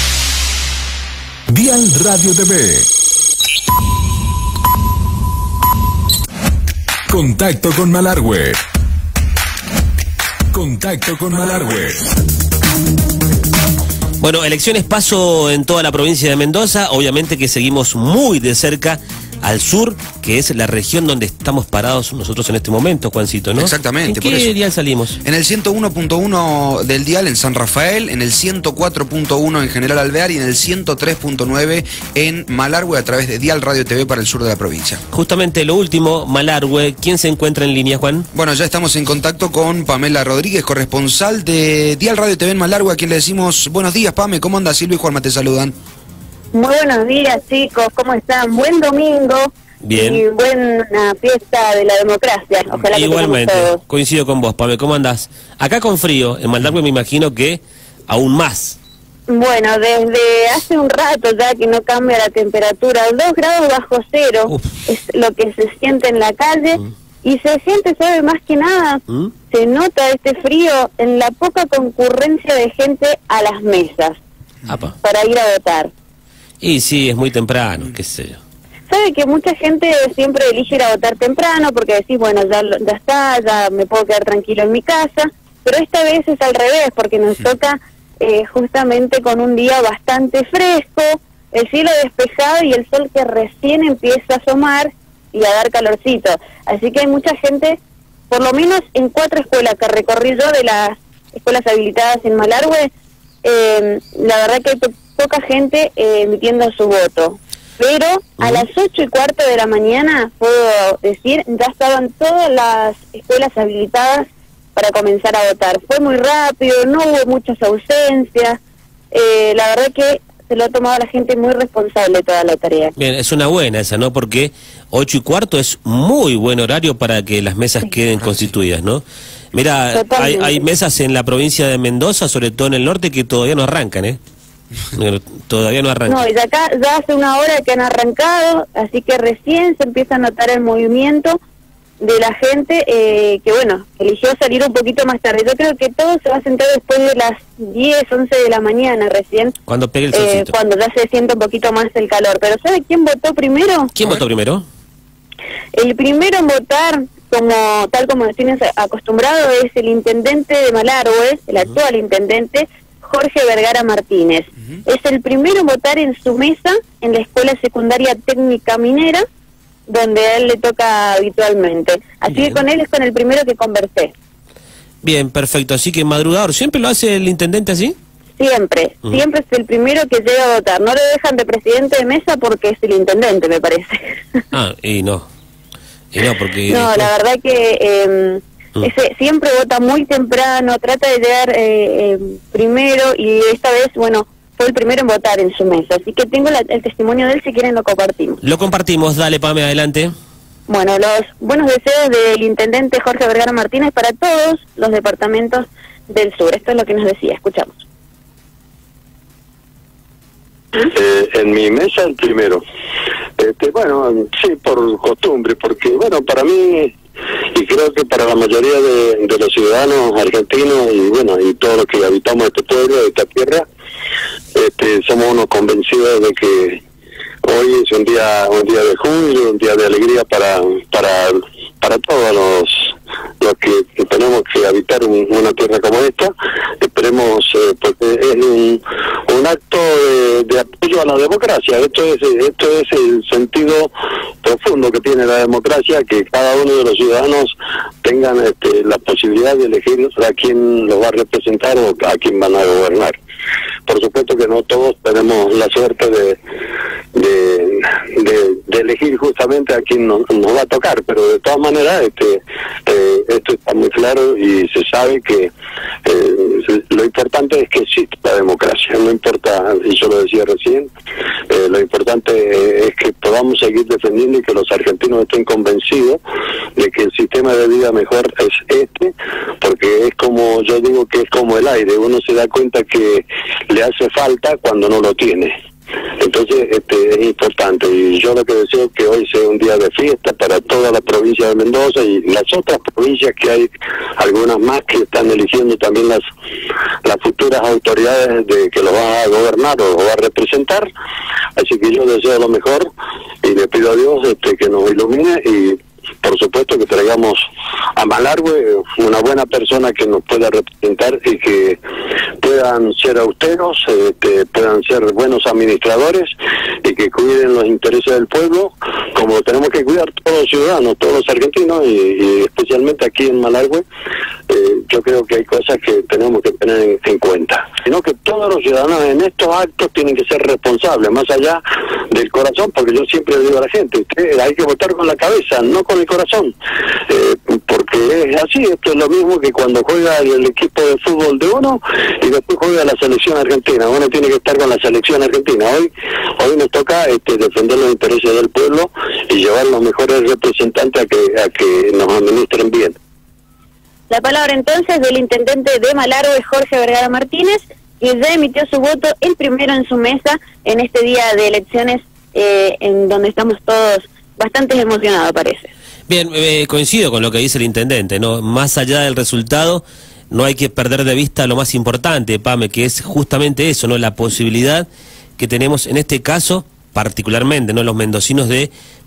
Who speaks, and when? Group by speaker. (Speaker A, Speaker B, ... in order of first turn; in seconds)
Speaker A: 1.5-2.9, 7.1-8.6, 10.5-12.1
Speaker B: 14.2-25.2, 35.1-38.3, 49.8-50.2, 52.7-58.8, 74.7-74.9, 76.6-78.4, 108.4-108.7, 123.0-134.2, 134.9-136.2, 149.7-150.5, 153.9-154.6, 172.3-172.6, 175.0-177.9, 184.5-185.3, 186.1-187.1, 198.4-200.1, 366.1-374.9, 375.4-378.7
Speaker C: 23.6-24.5, 25.2-35.0, 38.3-45.7
Speaker D: 46.5-53.8, 59.3-74.2, 75.0-75.9, 78.9-102.9, 103.4-118.6, 119.1-122.9, 129.9-130.6, 136.1-141.4, 142.0-149.5, 150.1-153.9, 155.7-169.2, 169.9-174.1, 178.4-184.4, 186.7-198.4, 200.7-207.8, 354.1-365.7
Speaker E: 210.8-212.6, 213.4-216.9, 217.5-223.7, 224.5-226.8, 227.4-243.9, 244.4-253.2, 253.8-256.4, 257.1-265.5, 266.0-270.9, 271.5-276.2, 276.8-285.5, 286.2-296.2, 297.0-300.9, 301.6-302.9, 303.4-307.4, 307.9-311.8, 312.4-316.3, 316.8-323.8, 324.5-336.5, 337.1-352.9